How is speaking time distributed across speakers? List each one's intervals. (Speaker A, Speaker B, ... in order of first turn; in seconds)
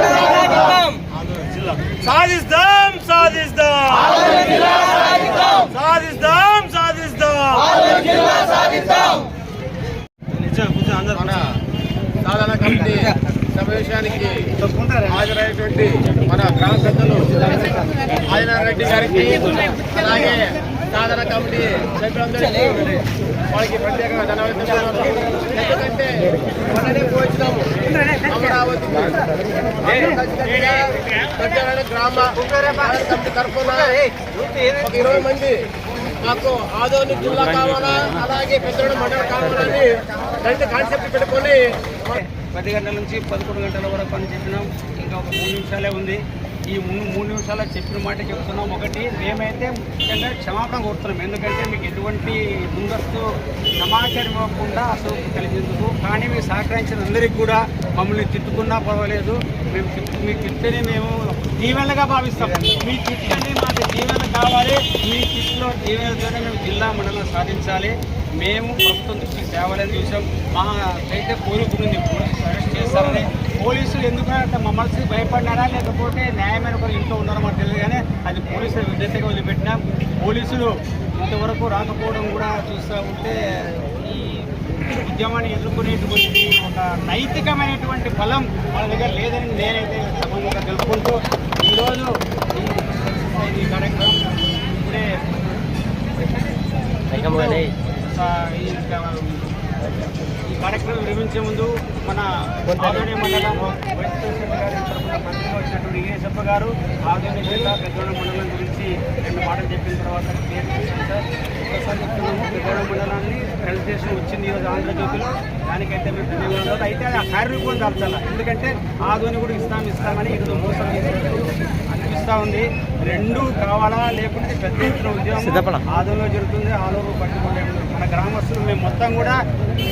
Speaker A: 1.4-4.6, 5.7-7.9
Speaker B: 3.0-3.7, 5.6-5.9, 7.9-8.8, 10.3-11.4, 14.6-15.4, 30.6-30.8, 32.4-33.0, 33.8-34.7, 42.0-95.4, 97.1-99.7, 100.3-129.5
Speaker C: 12.2-14.5, 15.3-17.6, 18.2-34.0, 34.7-35.7, 36.2-41.6